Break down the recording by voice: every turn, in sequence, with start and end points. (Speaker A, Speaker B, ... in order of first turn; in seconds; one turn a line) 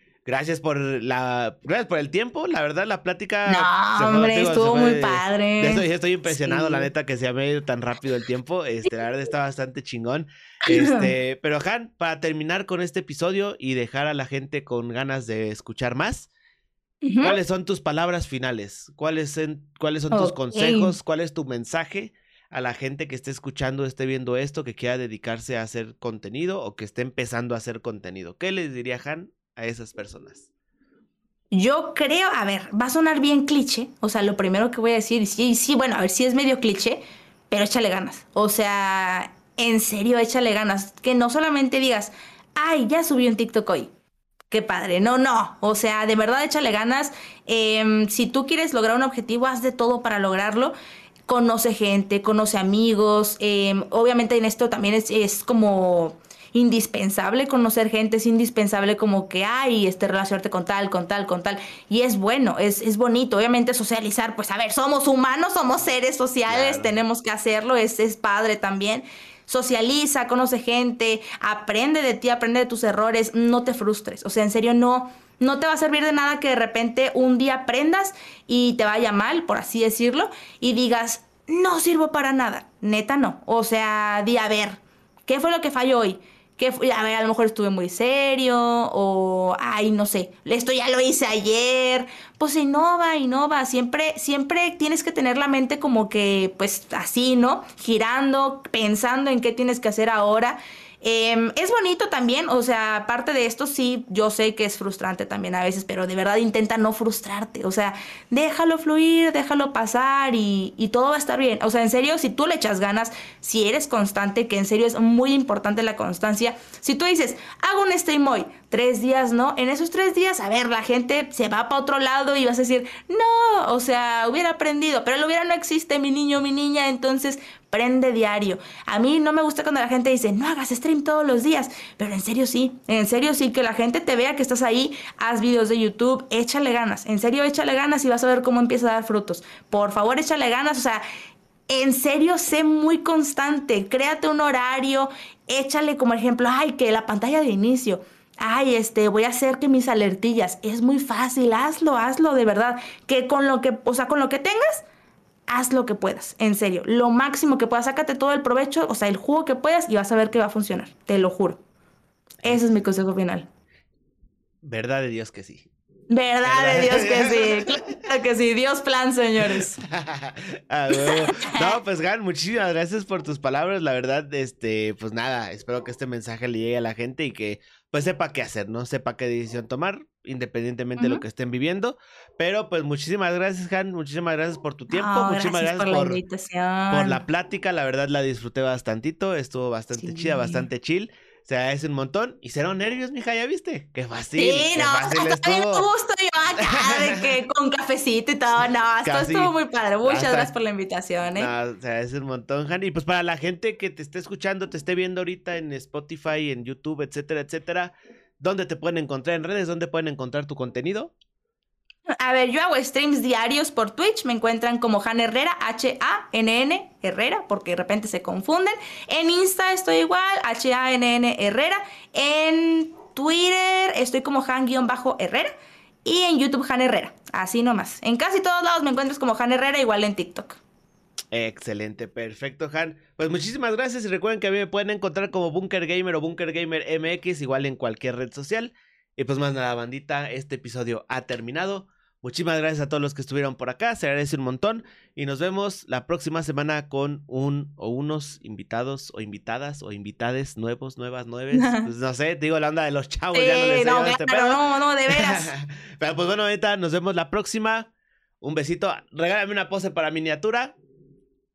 Speaker A: 0.2-16.3
Speaker B: 3.5-6.9
Speaker B: 10.7-11.1
Speaker B: 17.0-17.4
Speaker A: 17.2-30.4
Speaker B: 20.1-20.9
Speaker B: 31.5-43.9
Speaker B: 44.5-50.7
Speaker B: 51.3-141.0
Speaker A: 66.5-66.9
Speaker B: 141.7-154.8
Speaker B: 155.5-161.6
Speaker B: 162.4-163.5
Speaker A: 164.6-165.7
Speaker B: 166.1-169.8
Speaker A: 166.4-168.0
Speaker A: 169.4-186.2
Speaker B: 170.9-171.8
Speaker B: 181.0-181.2
Speaker B: 184.9-187.2
Speaker A: 186.9-195.9
Speaker B: 190.0-190.7
Speaker B: 194.4-201.5
Speaker A: 196.6-197.3
Speaker A: 199.0-199.5
Speaker A: 200.1-200.5
Speaker A: 201.3-211.1
Speaker B: 212.1-225.5
Speaker B: 226.0-230.6
Speaker A: 231.3-257.9
Speaker B: 251.5-251.9
Speaker B: 253.3-255.5
Speaker A: 258.4-260.7